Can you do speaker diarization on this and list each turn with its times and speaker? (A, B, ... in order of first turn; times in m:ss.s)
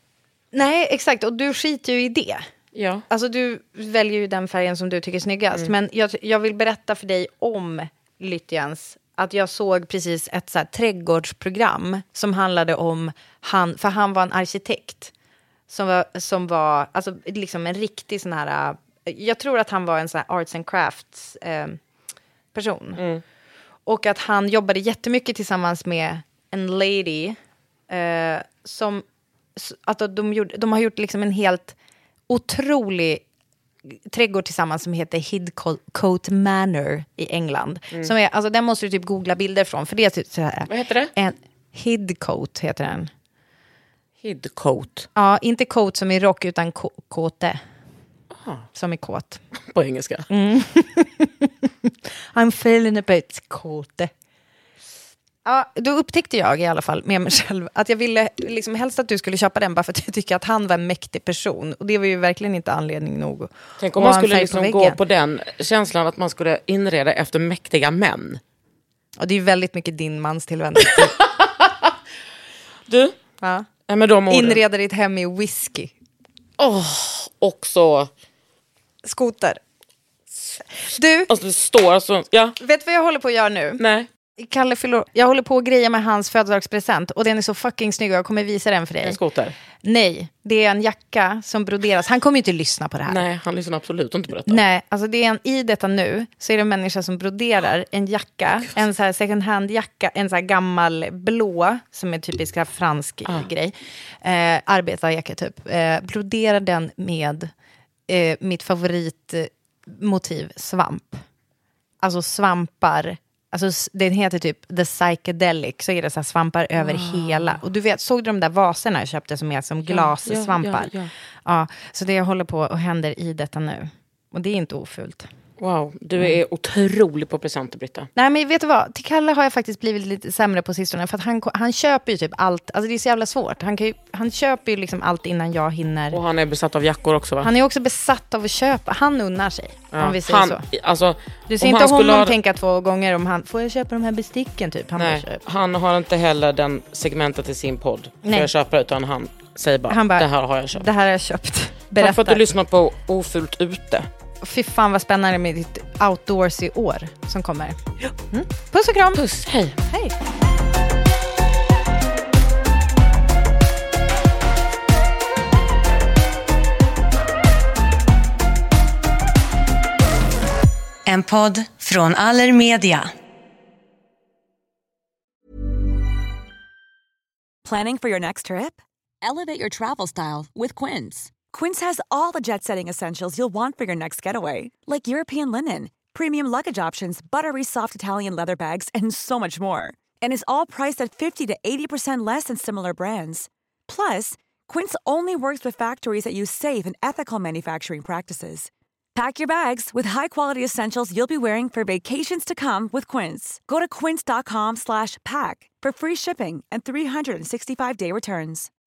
0:00.5-0:02.4 A
0:02.7-0:03.1 B
0:03.1-0:15.1 A
0:15.7-0:21.8 A
0:22.5-0:23.0 A
0:23.0-0:23.2 B
0:23.9-0:27.4 A
0:27.9-0:29.0 A
0:29.6-0:31.8 A
0:32.3-0:33.2 A
0:33.9-0:43.1 A
0:40.7-0:41.1 B
0:44.2-0:45.1 B
0:45.2-0:47.6 A
0:48.3-0:48.7 B
0:48.7-0:49.4 A
0:49.7-0:50.3 B
0:50.3-0:54.1 A
0:55.4-1:05.0 A
1:03.8-1:08.4 B
1:09.2-1:11.2 A
1:10.9-1:11.7 B
1:12.9-1:13.2 B
1:13.4-1:13.7 A
1:13.9-1:14.6 B
1:14.3-1:15.9 A
1:16.6-1:18.1 B
1:19.0-1:19.6 A
1:20.9-1:21.3 A
1:21.3-1:22.6 B
1:22.6-1:23.8 A
1:23.8-1:24.1 B
1:24.4-1:29.2 A
1:29.0-1:29.6 B
1:29.8-1:33.2 A
1:33.1-1:34.6 B
1:34.5-1:47.5 A
1:48.1-1:51.2 A
1:52.0-2:00.9 A
1:56.8-1:57.6 B
1:59.9-2:01.1 B
2:01.4-2:05.3 A
2:05.6-2:08.1 B
2:08.2-2:16.2 A
2:16.1-2:17.5 B
2:17.4-2:20.6 A
2:19.9-2:22.4 B
2:21.5-2:25.4 A
2:25.0-2:30.9 B
2:29.9-2:32.4 A
2:32.0-2:34.1 B
2:34.4-2:39.2 A
2:39.1-2:39.8 B
2:51.1-2:53.1 C
2:57.6-3:28.7 D